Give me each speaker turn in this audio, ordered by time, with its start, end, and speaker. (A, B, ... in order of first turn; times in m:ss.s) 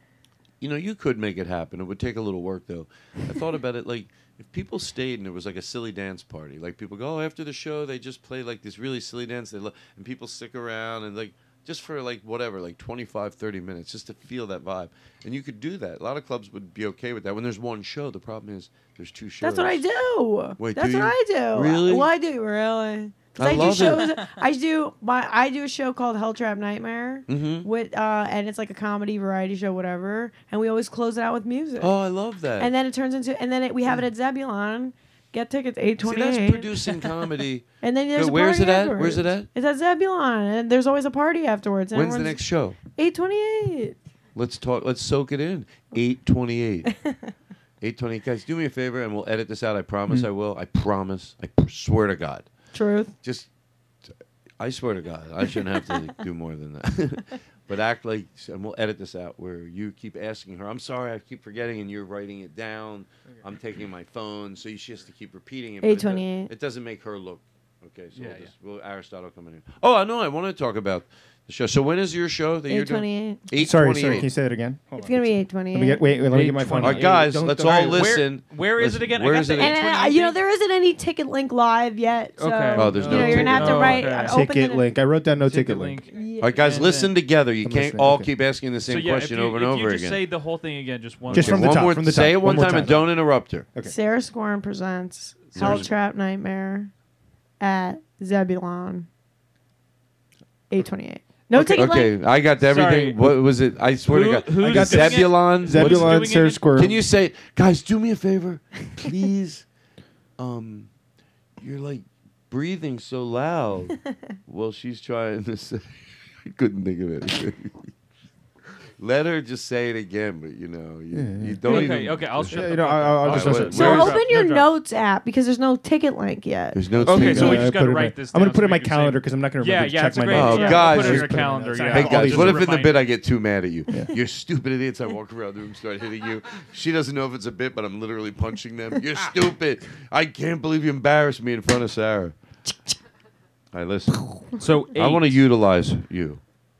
0:00.6-0:19.8 A
0:19.4-0:31.9 B
0:20.6-0:22.1 A
0:23.4-0:24.1 A
0:27.3-0:27.7 A
0:31.8-0:32.7 A
0:32.6-0:36.8 B
0:36.0-0:39.5 A
0:37.8-0:42.4 B
0:41.9-0:42.8 A
0:43.0-0:44.0 B
0:44.3-0:47.0 A
0:47.8-0:52.5 A
0:52.7-0:53.1 B
0:53.2-0:53.5 A
0:54.6-1:14.3 A
1:05.8-1:06.5 B
1:08.1-1:08.5 C
1:12.7-1:13.4 B
1:13.5-1:18.3 D
1:15.0-1:16.1 B
1:16.3-1:20.4 C
1:16.8-1:19.8 A
1:19.6-1:24.9 B
1:22.4-1:24.4 C
1:22.8-1:24.2 A
1:23.2-1:26.0 D
1:25.4-1:27.1 C
1:26.1-1:26.6 B
1:26.4-1:30.2 A
1:27.6-1:28.3 D
1:28.8-1:31.9 C
1:31.3-1:33.7 A
1:31.3-1:33.9 D
1:33.8-1:36.9 B
1:35.5-1:35.9 A
1:37.6-1:39.1 B
1:40.7-1:42.1 B
1:41.5-1:49.6 A
1:42.6-1:43.4 C
1:44.0-1:47.0 C
1:44.6-1:47.0 D
1:50.4-1:50.9 A
1:51.6-1:55.9 A
1:56.4-1:57.8 A
1:59.0-2:02.7 A
2:01.1-2:04.0 D
2:01.6-2:04.7 C
2:03.2-2:04.2 A
2:03.7-2:06.8 B
2:06.7-2:07.7 A
2:07.0-2:12.9 D
2:07.0-2:13.1 C
2:10.3-2:22.4 A
2:10.5-2:10.9 B
2:23.7-2:26.4 A
2:24.6-2:25.4 C